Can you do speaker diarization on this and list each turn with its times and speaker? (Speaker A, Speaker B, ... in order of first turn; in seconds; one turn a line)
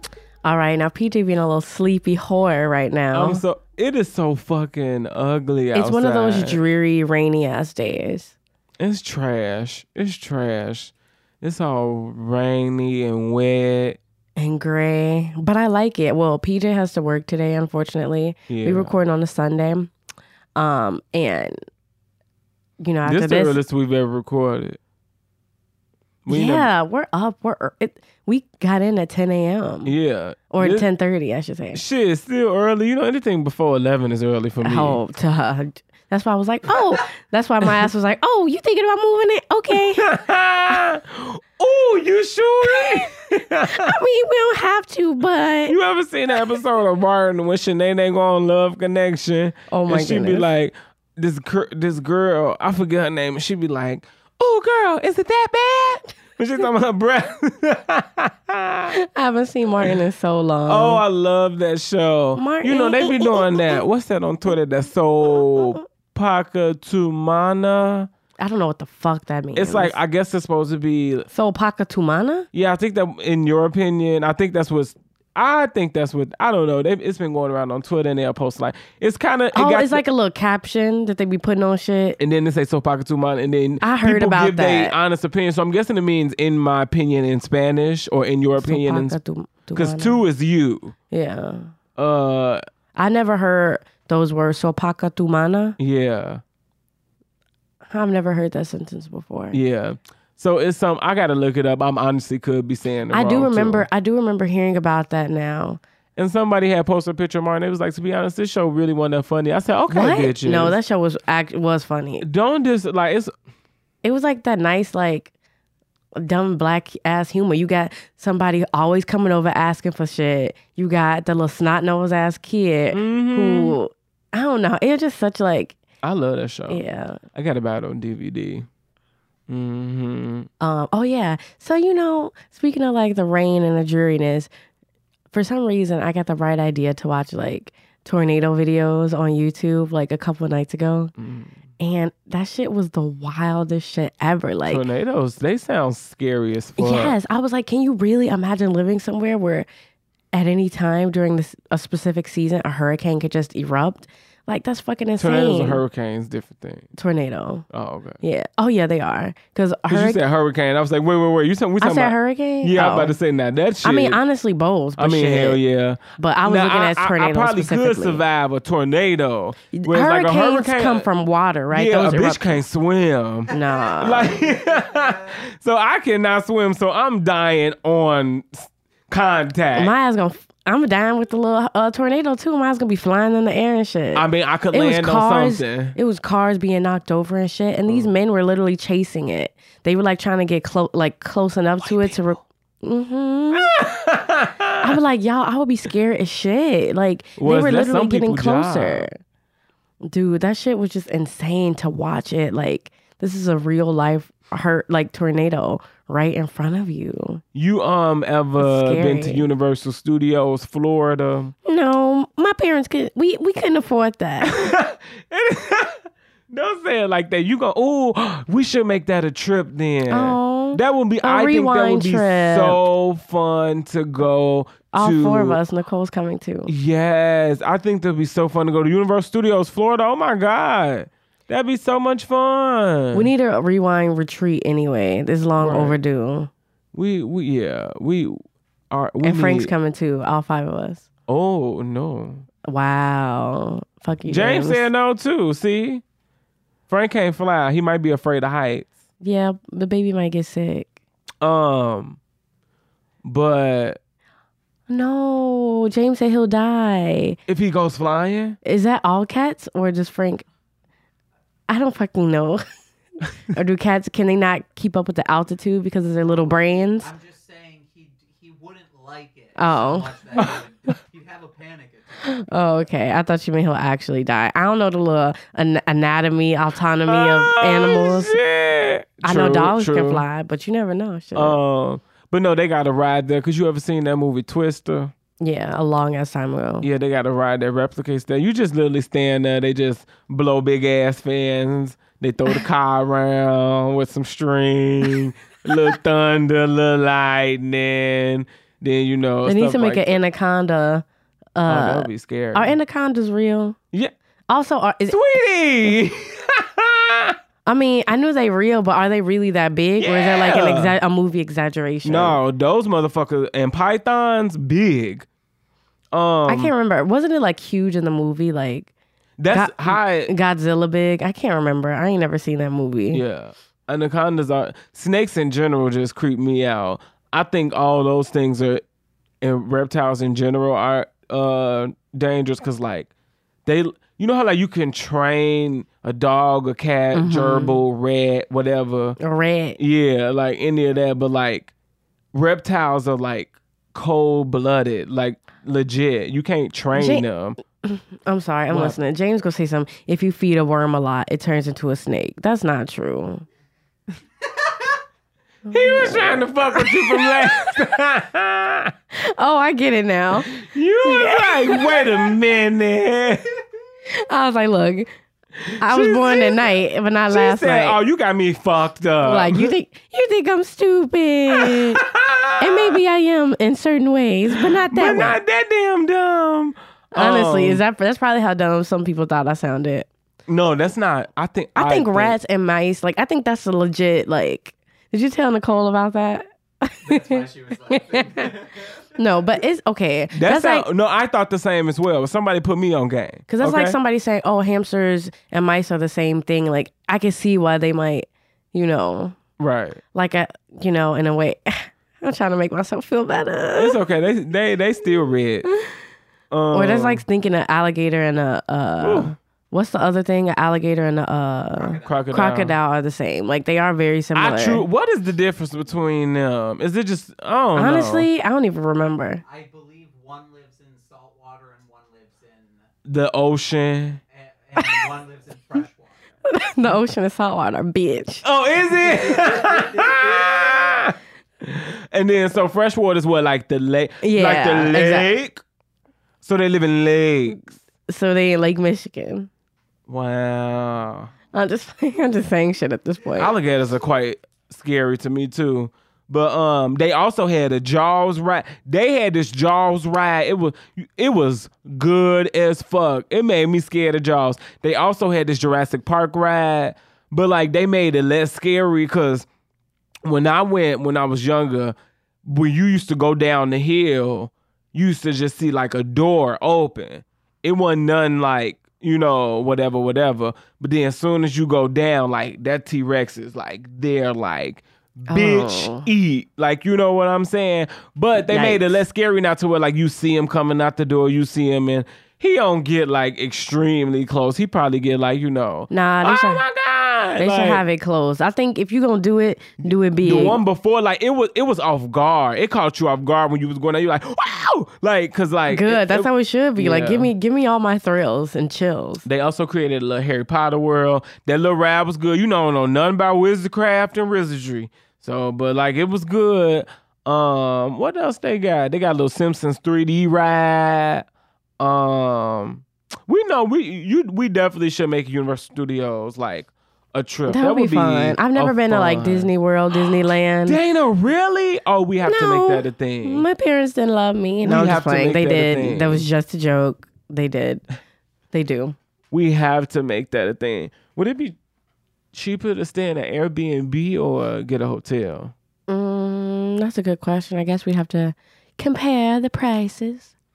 Speaker A: 0.4-3.4
Speaker B: 3.1-6.6
Speaker A: 5.7-8.3
Speaker B: 8.8-14.0
Speaker A: 14.4-19.9
Speaker B: 18.5-18.9
Speaker A: 20.6-21.6
Speaker A: 22.8-23.6
Speaker B: 23.1-24.8
Speaker B: 26.2-26.7
Speaker A: 26.3-29.9
Speaker B: 29.9-30.9
Speaker A: 30.5-31.8
Speaker B: 31.7-35.0
Speaker A: 34.6-40.1
Speaker B: 39.7-43.9
Speaker A: 42.6-43.1
Speaker A: 43.7-45.8
Speaker B: 45.7-59.0
Speaker A: 49.7-50.5
Speaker A: 58.9-61.0
Speaker B: 60.7-68.1
Speaker A: 62.4-63.8
Speaker A: 68.4-70.0
Speaker B: 69.5-71.3
Speaker A: 71.3-72.5
Speaker B: 72.5-80.0
Speaker A: 79.5-82.2
Speaker B: 82.2-89.2
Speaker A: 83.8-85.0
Speaker A: 88.6-90.2
Speaker B: 89.7-91.0
Speaker A: 91.1-91.7
Speaker B: 92.0-92.6
Speaker A: 93.0-95.8
Speaker B: 95.8-96.4
Speaker A: 97.9-99.6
Speaker B: 99.5-103.9
Speaker A: 103.1-105.8
Speaker B: 106.2-110.8
Speaker A: 109.9-112.3
Speaker B: 112.2-113.3
Speaker A: 114.0-115.3
Speaker A: 116.2-125.8
Speaker B: 122.9-123.8
Speaker B: 126.0-126.8
Speaker A: 126.7-127.2
Speaker B: 127.3-128.7
Speaker B: 129.5-130.5
Speaker A: 130.6-134.5
Speaker A: 135.3-141.1
Speaker B: 141.2-141.6
Speaker A: 141.8-144.8
Speaker B: 144.7-147.2
Speaker A: 146.8-149.7
Speaker A: 150.3-155.8
Speaker B: 155.2-156.9
Speaker A: 156.9-157.7
Speaker B: 157.7-158.2
Speaker A: 158.2-160.2
Speaker B: 159.9-164.2
Speaker A: 161.8-163.1
Speaker A: 163.8-165.6
Speaker B: 165.0-171.1
Speaker A: 166.2-168.2
Speaker A: 169.7-172.6
Speaker B: 171.7-179.9
Speaker A: 173.5-174.3
Speaker C: 174.4-175.2
Speaker A: 179.7-193.7
Speaker B: 184.2-186.0
Speaker B: 191.8-192.4
Speaker B: 193.5-195.0
Speaker A: 194.8-199.2
Speaker B: 197.4-199.1
Speaker A: 200.1-207.4
Speaker B: 207.6-211.5
Speaker A: 208.6-209.5
Speaker A: 211.7-214.8
Speaker B: 214.4-225.6
Speaker A: 220.1-222.8
Speaker A: 224.9-226.7
Speaker B: 226.7-233.3
Speaker A: 233.1-236.5
Speaker B: 235.6-236.0
Speaker B: 236.9-238.4
Speaker B: 238.9-239.7
Speaker A: 239.2-241.1
Speaker B: 241.3-242.4
Speaker A: 242.7-244.8
Speaker B: 244.3-246.0
Speaker B: 246.9-248.9
Speaker A: 249.2-250.9
Speaker B: 251.4-252.2
Speaker B: 253.2-254.0
Speaker A: 254.9-257.4
Speaker B: 257.5-258.6
Speaker A: 258.6-260.4
Speaker A: 261.7-262.6
Speaker A: 263.5-267.1
Speaker C: 267.0-272.5
Speaker A: 269.6-270.2
Speaker A: 272.4-278.4
Speaker B: 277.1-280.2
Speaker A: 279.2-281.6
Speaker B: 281.4-285.1
Speaker A: 285.4-286.9
Speaker B: 286.8-300.1
Speaker A: 299.4-301.1
Speaker A: 301.6-303.8
Speaker B: 301.7-302.8
Speaker A: 304.5-305.2
Speaker B: 305.1-307.4
Speaker A: 307.7-312.4
Speaker B: 310.0-310.9
Speaker B: 312.0-315.3
Speaker B: 316.1-316.7
Speaker A: 316.5-318.9
Speaker B: 319.4-320.3
Speaker A: 319.5-323.2
Speaker B: 323.1-328.8
Speaker B: 329.4-333.1
Speaker B: 333.7-339.2
Speaker A: 337.1-337.8
Speaker A: 339.2-339.8
Speaker B: 339.8-341.7
Speaker B: 342.3-347.6
Speaker A: 346.9-347.2
Speaker A: 347.8-353.5
Speaker B: 348.7-349.0
Speaker A: 355.7-357.8
Speaker B: 355.7-358.9
Speaker A: 359.2-360.5
Speaker B: 360.5-363.5
Speaker A: 361.0-362.1
Speaker A: 364.2-365.1
Speaker B: 365.6-366.8
Speaker A: 365.8-368.0
Speaker B: 367.3-369.7
Speaker A: 369.2-372.0
Speaker B: 371.5-373.0
Speaker A: 372.6-375.4
Speaker B: 374.9-377.8
Speaker A: 377.1-380.1
Speaker B: 380.5-382.4
Speaker A: 381.8-388.6
Speaker C: 387.0-389.1
Speaker A: 389.1-390.9
Speaker B: 390.3-393.9
Speaker A: 393.5-399.4
Speaker B: 399.6-400.0
Speaker A: 400.1-404.0
Speaker B: 403.8-405.7
Speaker B: 406.5-407.2
Speaker A: 406.7-414.8
Speaker B: 409.0-409.4
Speaker C: 411.8-412.3
Speaker B: 412.0-412.8
Speaker B: 414.4-418.3
Speaker A: 417.8-419.4
Speaker C: 419.4-422.9
Speaker B: 423.1-424.2
Speaker C: 424.3-426.4
Speaker A: 426.5-428.4
Speaker B: 428.4-435.6
Speaker C: 429.0-431.1
Speaker A: 434.2-435.3
Speaker B: 436.4-437.6
Speaker A: 438.1-439.5
Speaker B: 440.1-441.3
Speaker A: 441.5-443.5
Speaker B: 443.4-459.5
Speaker B: 460.2-487.8
Speaker A: 475.3-476.1
Speaker A: 478.4-479.0
Speaker A: 485.9-486.6
Speaker A: 487.4-490.6
Speaker B: 490.2-497.3
Speaker A: 495.7-499.2
Speaker B: 499.2-511.3
Speaker B: 511.8-519.5
Speaker A: 517.5-520.8
Speaker B: 520.6-523.5
Speaker A: 522.2-527.9
Speaker B: 524.6-526.3
Speaker A: 528.5-529.0
Speaker B: 529.3-531.6
Speaker B: 532.3-535.5
Speaker A: 535.9-540.3